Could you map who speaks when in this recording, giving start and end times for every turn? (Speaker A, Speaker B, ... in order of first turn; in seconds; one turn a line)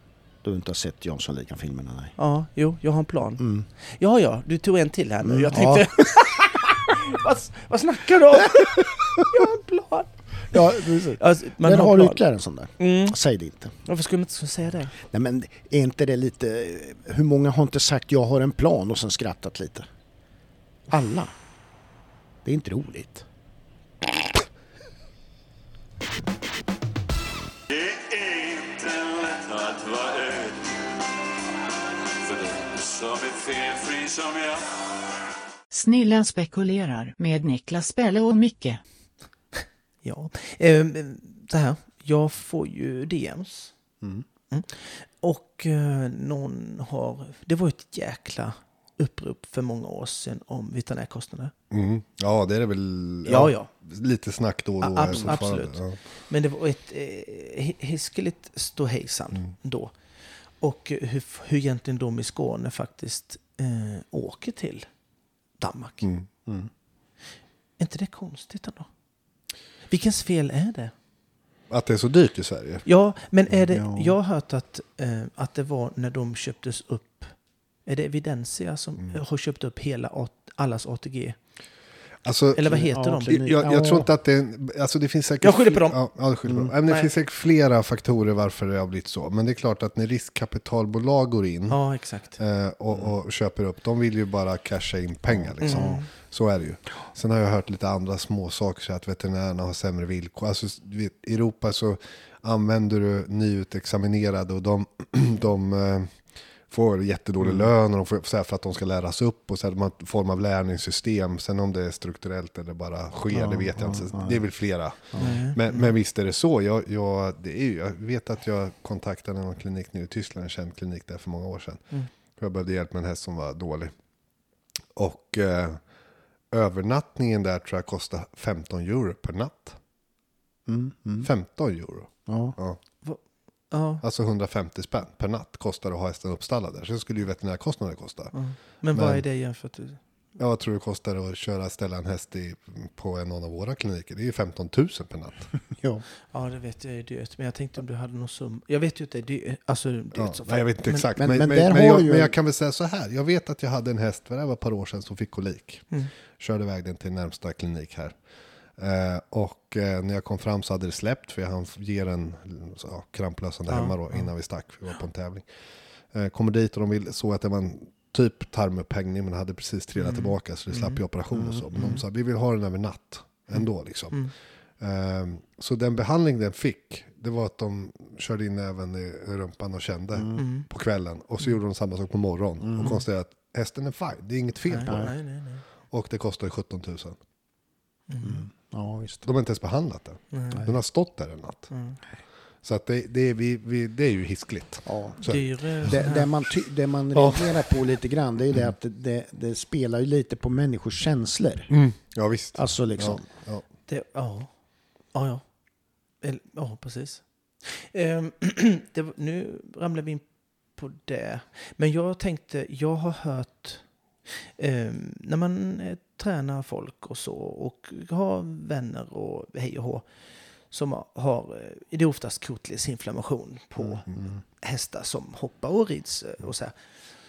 Speaker A: 0.4-2.1
Speaker B: 2.2-12.2
Speaker A: 3.4-3.7
Speaker A: 5.2-6.0
Speaker A: 8.6-9.3
Speaker A: 10.5-13.7
Speaker B: 12.8-13.2
Speaker B: 13.8-14.9
Speaker A: 15.0-19.9
Speaker A: 20.9-21.3
Speaker A: 22.4-23.3
Speaker C: 27.7-30.8
Speaker C: 32.2-34.6
Speaker D: 35.7-38.8
Speaker B: 40.0-43.8
Speaker B: 44.5-51.5
Speaker E: 51.7-56.0
Speaker B: 53.3-53.7
Speaker B: 54.8-59.9
Speaker B: 60.6-64.9
Speaker B: 65.6-66.1
Speaker E: 66.0-66.5
Speaker B: 67.8-68.9
Speaker B: 69.9-70.9
Speaker E: 71.7-72.9
Speaker B: 72.9-77.3
Speaker E: 73.7-74.1
Speaker B: 77.9-81.4
Speaker E: 82.2-91.8
Speaker B: 82.5-83.5
Speaker A: 82.7-84.1
Speaker B: 85.4-86.0
Speaker A: 86.5-86.7
Speaker B: 91.7-92.4
Speaker E: 92.4-106.2
Speaker A: 95.4-96.0
Speaker B: 95.6-96.0
Speaker E: 106.7-121.8
Speaker A: 107.4-107.7
Speaker A: 113.3-114.4
Speaker B: 115.2-115.9
Speaker E: 122.4-123.9
Speaker E: 125.0-125.8
Speaker E: 126.5-129.8
Speaker A: 130.7-131.3
Speaker E: 131.2-132.8
Speaker A: 132.3-132.6
Speaker B: 133.7-134.0
Speaker E: 134.0-138.3
Speaker B: 138.3-140.0
Speaker E: 138.9-139.2
Speaker E: 140.4-145.5
Speaker A: 145.7-146.0
Speaker B: 146.3-151.1
Speaker E: 150.2-158.1
Speaker A: 151.2-152.3
Speaker E: 158.8-165.5
Speaker B: 163.7-164.3
Speaker E: 166.1-174.3
Speaker B: 170.0-171.0
Speaker A: 171.3-171.6
Speaker B: 171.8-172.0
Speaker E: 174.8-185.2
Speaker A: 180.2-180.4
Speaker B: 180.4-180.7
Speaker A: 182.6-183.0
Speaker B: 184.7-185.6
Speaker A: 184.9-185.1
Speaker E: 185.9-187.2
Speaker B: 188.1-188.4
Speaker A: 188.2-189.3
Speaker E: 189.3-191.7
Speaker B: 190.3-190.6
Speaker B: 191.7-192.0
Speaker E: 192.6-196.0
Speaker A: 194.9-195.2
Speaker B: 195.3-196.3
Speaker A: 195.9-201.7
Speaker E: 197.1-197.7
Speaker E: 201.7-203.6
Speaker A: 202.6-203.2
Speaker B: 203.9-204.5
Speaker B: 205.1-205.4
Speaker B: 206.2-210.2
Speaker B: 210.8-220.1
Speaker B: 220.7-224.1
Speaker B: 224.6-226.8